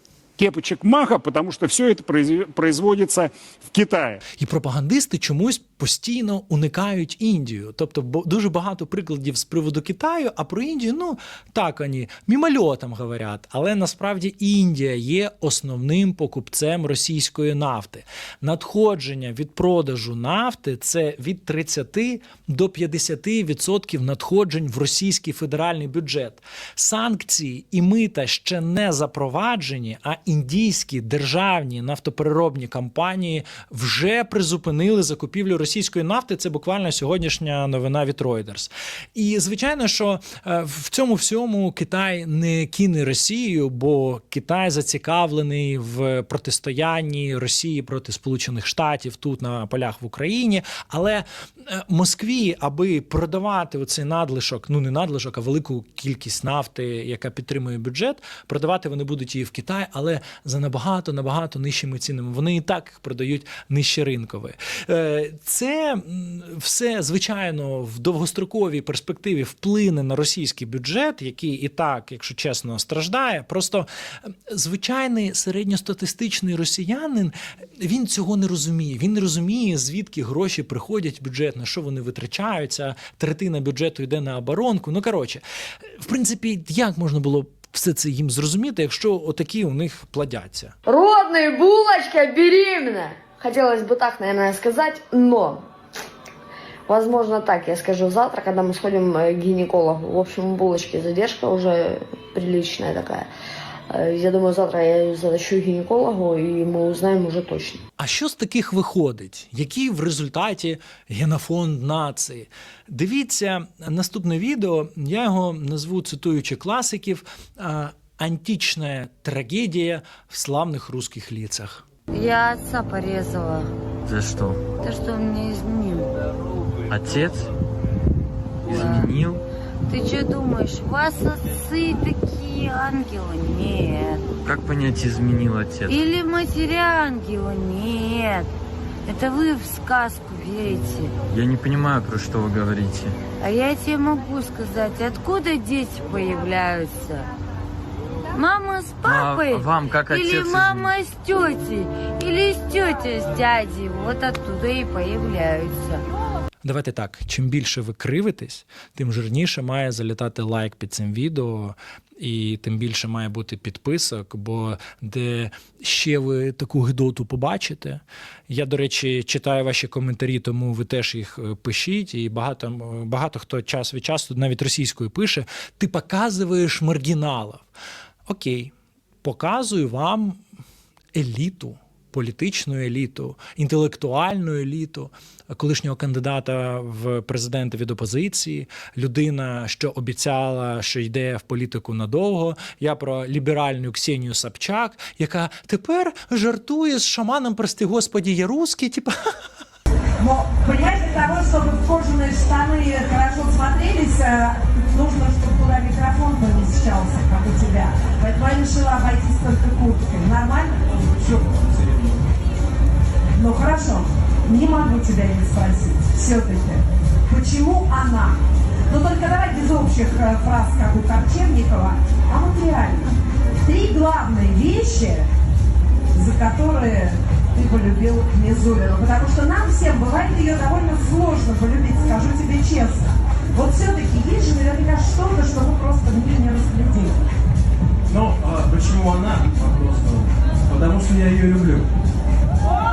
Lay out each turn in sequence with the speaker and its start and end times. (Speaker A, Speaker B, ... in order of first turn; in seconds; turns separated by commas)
Speaker A: 0.4-4.2, Speaker B: 4.4-85.4, Speaker B: 86.0-90.7, Speaker C: 90.9-95.7, Speaker C: 96.9-103.3, Speaker C: 103.9-107.8, Speaker B: 108.0-121.8, Speaker D: 122.1-123.7, Speaker E: 124.1-124.7, Speaker D: 124.7-126.1, Speaker E: 126.9-127.5, Speaker D: 128.7-129.1, Speaker E: 128.7-129.4, Speaker D: 129.9-134.4, Speaker E: 134.4-136.0, Speaker D: 135.9-138.5, Speaker D: 139.1-141.1, Speaker E: 141.3-143.2, Speaker D: 143.4-147.2, Speaker D: 148.3-156.0, Speaker E: 149.1-150.9, Speaker B: 156.6-177.7, Speaker B: 178.3-178.7, Speaker B: 179.2-180.4, Speaker B: 181.1-199.1, Speaker F: 200.2-211.6, Speaker G: 211.7-211.9, Speaker F: 213.3-225.3, Speaker F: 226.1-237.2, Speaker G: 238.1-241.9